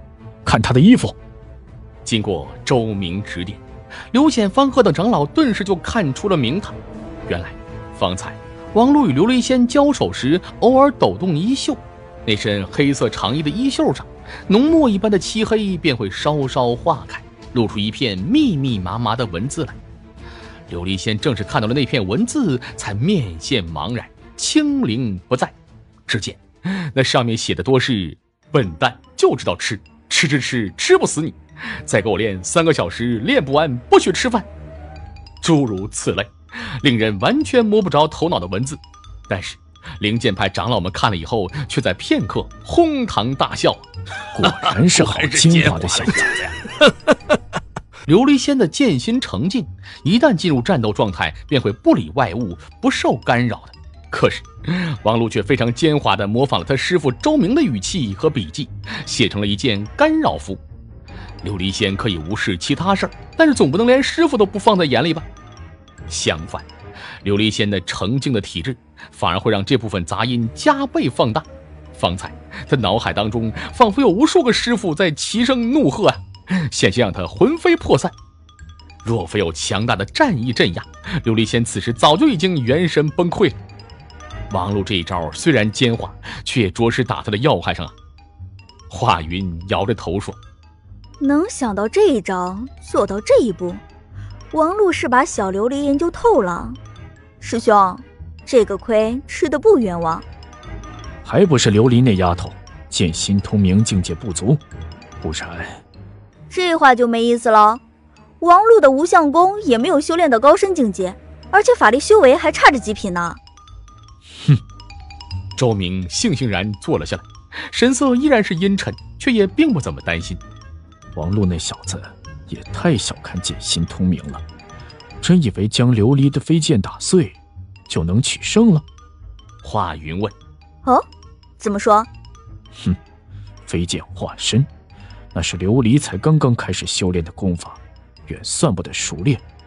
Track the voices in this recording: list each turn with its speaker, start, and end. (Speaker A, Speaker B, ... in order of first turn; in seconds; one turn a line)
Speaker A: 0.5-1.2
Speaker B: 2.1-6.8
Speaker B: 7.3-19.8
Speaker B: 20.7-25.6
Speaker B: 26.1-34.5
Speaker B: 35.4-43.9
Speaker A: 44.4-46.3
Speaker B: 44.4-46.6
Speaker B: 48.1-60.6
Speaker B: 61.4-65.3
Speaker B: 66.1-66.7
Speaker B: 67.2-78.1
Speaker B: 79.0-83.6
Speaker B: 84.5-88.0
Speaker B: 88.9-90.4
Speaker C: 91.2-93.8
Speaker C: 94.5-96.8
Speaker C: 97.4-100.2
Speaker A: 101.2-104.6
Speaker A: 105.2-105.8
Speaker C: 106.5-107.8
Speaker C: 108.4-113.4
Speaker B: 115.6-120.4
Speaker A: 121.2-124.4
Speaker A: 125.2-128.8
Speaker B: 129.6-130.3
Speaker C: 131.6-132.1
Speaker A: 133.7-134.7
Speaker A: 135.3-139.4